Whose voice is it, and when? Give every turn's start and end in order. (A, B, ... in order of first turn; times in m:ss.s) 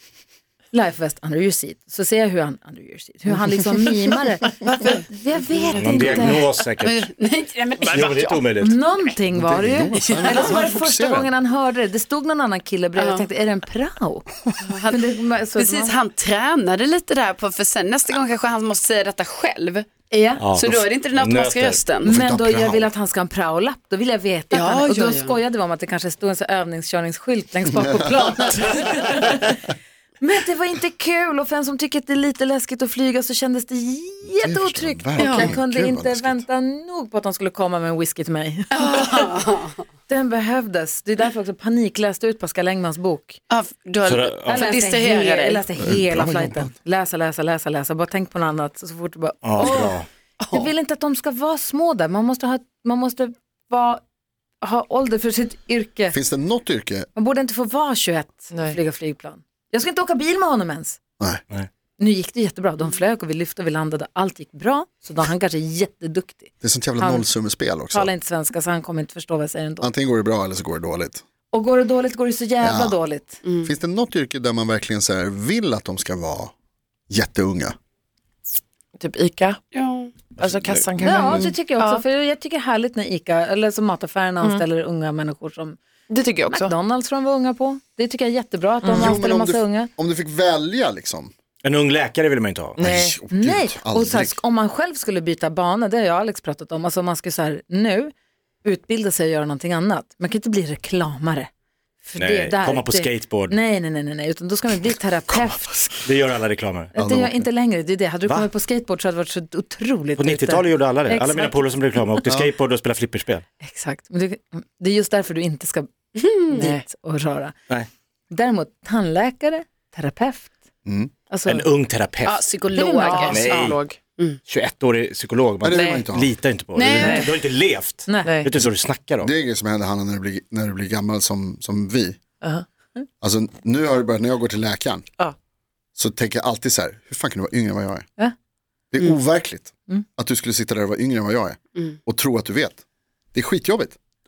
0:00.7-0:06.5 A
0:04.8-0:05.0 B
0:05.8-0:07.1 C
0:06.8-0:08.4 D
0:07.8-0:08.8 C
0:08.6-0:16.0 A
0:09.4-0:11.3 E
0:13.0-0:13.3 D
0:14.7-0:15.0 D
0:15.6-0:19.9 D
0:20.1-0:20.4 A
0:20.4-0:21.8 C
0:20.5-0:22.1 D
0:22.0-0:29.6 A
0:22.0-0:22.9 E
0:24.5-0:25.4 D
0:27.8-0:28.6 E
0:30.2-0:39.3 A
0:34.4-0:36.4 E
0:35.2-0:35.5 D
0:38.7-0:39.8 D
0:40.1-0:43.4 A
0:43.5-0:45.7 D
0:44.0-0:44.7 C
0:44.5-0:50.0 A
0:45.8-0:46.7 E
0:49.4-0:50.1 C
0:50.4-0:50.7 D
0:50.5-0:54.0 A
0:54.6-0:56.2 A
0:56.1-0:57.1 E
0:57.2-1:01.0 A
0:58.5-0:58.8 B
1:02.0-1:07.3 A
1:06.6-1:08.1 E
1:07.9-1:09.9 A
1:09.8-1:11.2 E
1:11.5-1:13.4 A
1:12.6-1:13.0 E
1:13.6-1:16.5 E
1:17.1-1:17.8 E
1:19.0-1:19.6 B
1:19.7-1:20.3 D
1:20.4-1:22.0 B
1:20.4-1:20.7 C
1:21.0-1:25.8 A
1:26.1-1:26.7 B
1:26.5-1:29.9 A
1:28.8-1:29.2 B
1:28.9-1:31.3 E
1:31.6-1:32.8 C
1:32.8-1:33.2 B
1:32.8-1:34.4 E
1:32.9-1:41.5 A
1:42.0-1:46.1 A
1:42.2-1:43.6 C
1:46.0-1:46.9 C
1:46.9-1:51.7 A
1:47.0-1:47.4 E
1:50.2-1:53.4 C
1:53.6-1:55.9 A
1:56.2-1:56.6 D
1:56.5-1:57.6 A
1:56.5-1:56.8 B
1:58.3-2:00.6 A
2:00.8-2:01.1 E
2:01.3-2:01.7 A
2:01.5-2:02.5 C
2:02.2-2:04.4 D
2:02.8-2:03.5 A
2:03.0-2:04.0 B
2:03.3-2:03.8 C
2:04.5-2:09.3 C
2:05.6-2:06.4 E
2:05.7-2:06.1 B
2:06.8-2:07.3 D
2:07.0-2:07.3 B
2:08.1-2:08.4 A
2:08.2-2:08.5 B
2:09.2-2:12.2 E
2:13.2-2:15.0 E
2:16.0-2:18.1 E
2:18.9-2:22.8 E
2:23.3-2:24.0 E